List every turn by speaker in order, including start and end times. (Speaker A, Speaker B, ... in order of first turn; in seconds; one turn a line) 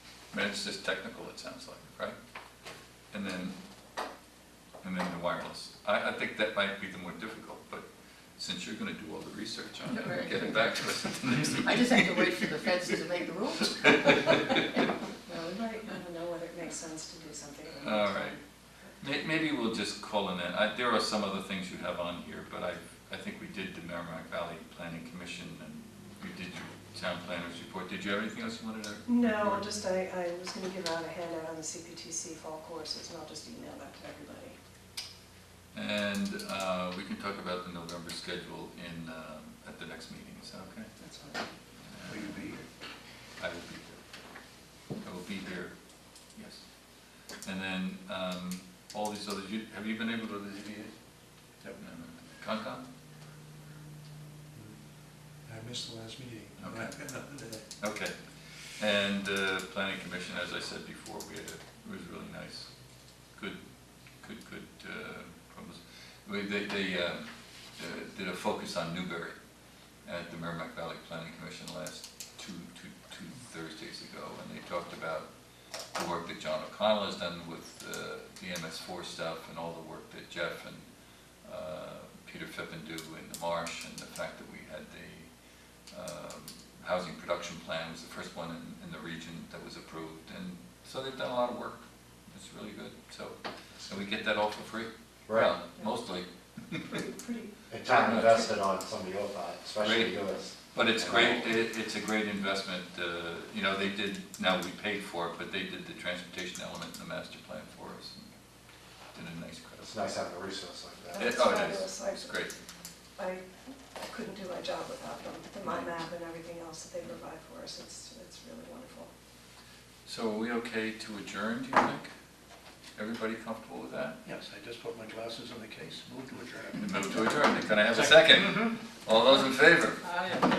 Speaker A: 0.3-2.2
Speaker A: 3.1-3.6
Speaker A: 4.8-7.8
Speaker A: 8.4-11.9
Speaker B: 10.0-10.5
Speaker B: 11.4-14.9
Speaker A: 14.0-14.6
Speaker C: 15.2-18.2
Speaker A: 17.7-18.4
Speaker A: 19.0-29.7
Speaker C: 29.1-34.5
Speaker A: 35.7-41.0
Speaker C: 41.0-41.5
Speaker A: 41.8-42.4
Speaker D: 42.0-42.6
Speaker A: 43.4-44.1
Speaker A: 45.0-51.1
Speaker A: 51.8-52.9
Speaker D: 54.5-54.8
Speaker D: 55.4-57.7
Speaker A: 56.6-56.9
Speaker A: 57.8-75.3
Speaker A: 75.9-80.9
Speaker A: 81.4-85.3
Speaker A: 85.9-97.0
Speaker E: 95.3-95.5
Speaker C: 96.9-97.6
Speaker E: 97.7-100.5
Speaker A: 97.9-98.5
Speaker A: 99.8-100.1
Speaker A: 100.7-108.3
Speaker A: 109.1-110.0
Speaker E: 109.9-111.4
Speaker A: 111.2-112.5
Speaker C: 111.2-112.4
Speaker C: 113.2-119.1
Speaker A: 120.0-122.1
Speaker A: 123.0-124.2
Speaker D: 124.2-128.6
Speaker A: 126.8-130.4